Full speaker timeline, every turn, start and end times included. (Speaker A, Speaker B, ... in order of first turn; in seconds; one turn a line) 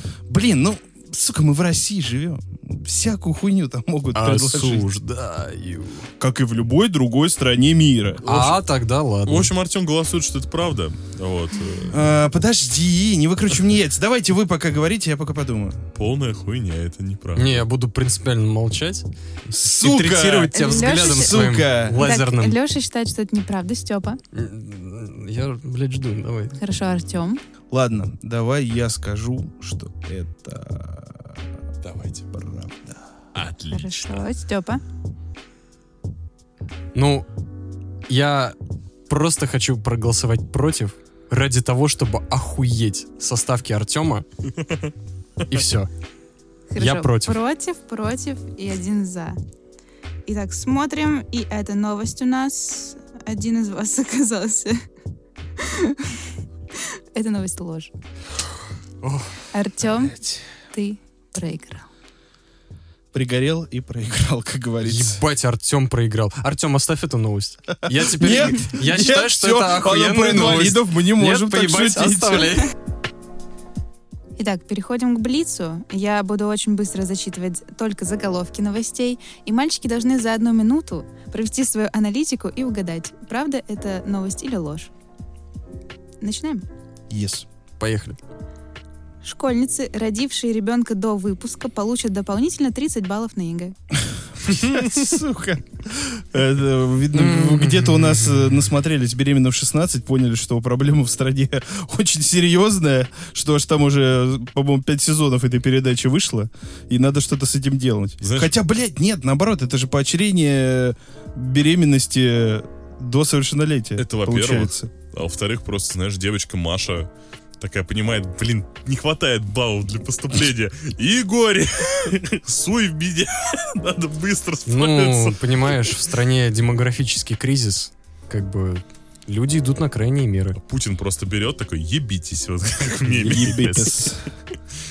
Speaker A: 0.3-4.8
Speaker B: 4.1-6.1
Speaker A: 6.2-8.2
Speaker C: 8.2-8.5
Speaker B: 8.2-9.5
Speaker C: 9.2-12.1
Speaker A: 11.9-15.8
Speaker C: 15.9-17.6
Speaker B: 17.4-22.6
Speaker A: 19.6-22.1
Speaker D: 20.5-24.2
Speaker B: 24.3-26.6
Speaker D: 26.6-27.4
Speaker A: 27.7-31.4
Speaker C: 31.8-32.2
Speaker A: 32.3-33.0
Speaker C: 33.3-34.2
Speaker D: 33.7-34.8
Speaker B: 36.9-37.2
Speaker B: 38.1-38.6
Speaker B: 39.1-44.2
Speaker B: 45.5-45.9
Speaker D: 46.7-49.4
Speaker B: 46.8-47.4
Speaker D: 50.2-54.8
Speaker D: 55.6-56.2
Speaker D: 56.8-57.9
Speaker B: 59.0-59.3
Speaker D: 59.5-60.1
Speaker A: 60.0-60.4
Speaker D: 60.7-61.9
Speaker A: 63.1-65.2
Speaker B: 64.8-72.7
Speaker A: 67.9-72.6
Speaker D: 74.4-84.9
Speaker D: 86.2-86.6
Speaker A: 87.1-87.5
Speaker B: 87.8-88.2
Speaker D: 89.2-93.7
Speaker A: 94.4-114.9
Speaker B: 97.1-98.6
Speaker C: 108.2-108.5
Speaker C: 114.0-117.1
Speaker C: 117.6-125.4
Speaker B: 124.7-130.6
Speaker C: 130.6-134.1
Speaker A: 133.0-134.3